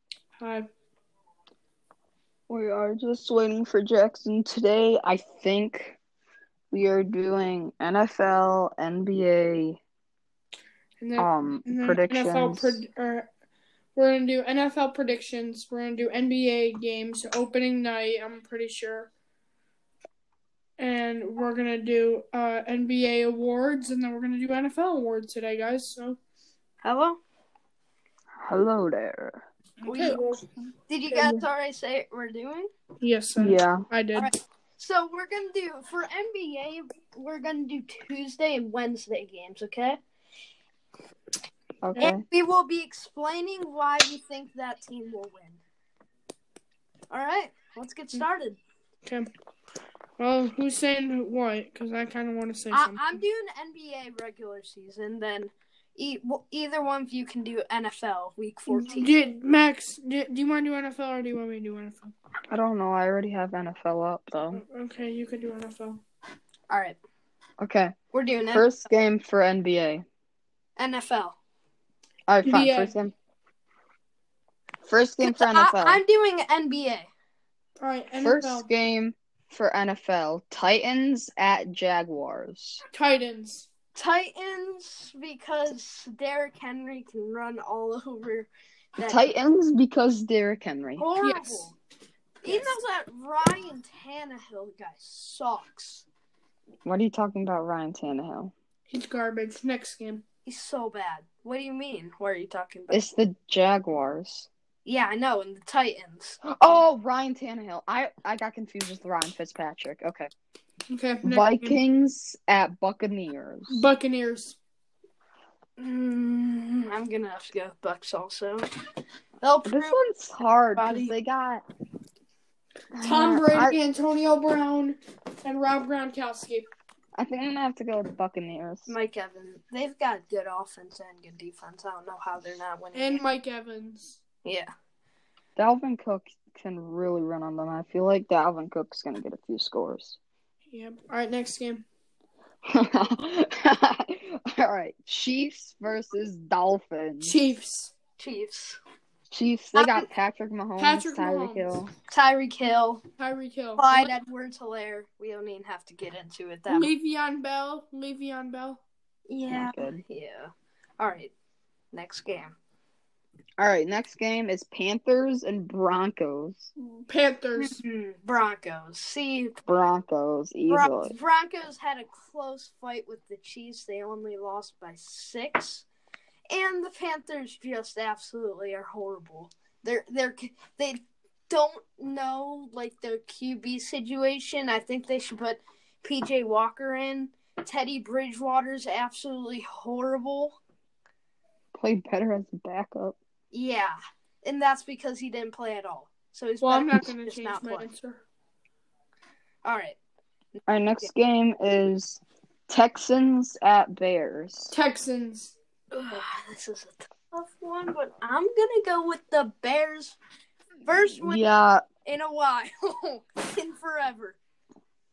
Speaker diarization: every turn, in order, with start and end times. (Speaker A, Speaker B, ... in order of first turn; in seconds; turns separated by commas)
Speaker A: 0.4-0.7, Speaker B: 2.5-6.0, Speaker B: 6.7-9.8, Speaker A: 11.0-13.3, Speaker B: 11.2-12.8, Speaker A: 14.0-19.1, Speaker A: 20.8-26.2, Speaker C: 26.8-27.2, Speaker B: 28.4-29.4, Speaker A: 29.8-30.4, Speaker C: 29.8-30.2, Speaker C: 30.9-32.7, Speaker A: 31.1-31.4, Speaker A: 33.0-34.3, Speaker B: 33.4-33.8, Speaker C: 34.1-40.0, Speaker B: 41.8-42.2, Speaker C: 42.0-45.6, Speaker C: 47.1-48.6, Speaker A: 49.0-49.3, Speaker A: 50.2-53.2, Speaker C: 52.7-59.1, Speaker A: 58.7-62.1, Speaker B: 62.5-64.6, Speaker A: 64.5-66.0, Speaker C: 66.7-67.0, Speaker B: 67.6-67.9, Speaker C: 68.1-68.9, Speaker B: 68.5-70.0, Speaker C: 70.8-71.4, Speaker B: 72.3-73.1, Speaker A: 72.4-72.9, Speaker B: 74.8-76.0, Speaker C: 75.2-77.1, Speaker A: 77.8-78.7, Speaker B: 78.2-82.8, Speaker A: 82.9-83.7, Speaker C: 83.9-89.2, Speaker B: 89.0-91.1, Speaker C: 91.0-91.8, Speaker A: 91.2-91.7, Speaker C: 92.4-96.0, Speaker A: 92.5-92.7, Speaker B: 96.8-98.5, Speaker A: 98.9-100.2, Speaker C: 100.4-103.0, Speaker B: 102.9-104.5, Speaker C: 104.8-106.4, Speaker B: 106.5-110.3, Speaker A: 110.9-111.8, Speaker B: 111.2-113.9, Speaker A: 113.7-114.6, Speaker C: 115.8-118.7, Speaker C: 119.4-120.0, Speaker B: 119.7-121.6, Speaker C: 120.8-121.1, Speaker B: 122.9-123.8, Speaker A: 123.0-126.7, Speaker B: 127.2-128.9, Speaker C: 128.9-133.2, Speaker A: 132.9-134.2, Speaker C: 134.4-134.7, Speaker B: 135.6-140.2, Speaker A: 140.7-141.8, Speaker B: 142.7-147.4, Speaker A: 147.2-147.9, Speaker C: 148.2-148.8, Speaker B: 149.3-151.9, Speaker C: 149.8-150.1, Speaker A: 150.8-151.8, Speaker C: 152.1-153.0, Speaker A: 153.2-154.1, Speaker C: 153.8-156.9, Speaker A: 156.7-158.8, Speaker C: 159.3-161.3, Speaker B: 159.5-160.0, Speaker C: 161.9-162.5, Speaker B: 163.6-166.7, Speaker A: 167.0-167.8, Speaker C: 167.6-169.6, Speaker B: 169.7-171.1, Speaker C: 170.7-175.8, Speaker C: 176.5-190.6, Speaker B: 191.7-193.2, Speaker C: 193.5-197.9, Speaker A: 196.6-198.2, Speaker C: 199.7-200.0, Speaker C: 200.5-201.1, Speaker B: 200.7-204.7, Speaker A: 204.7-205.5, Speaker C: 205.9-210.2, Speaker C: 210.8-211.5, Speaker B: 211.0-211.8, Speaker C: 212.0-214.4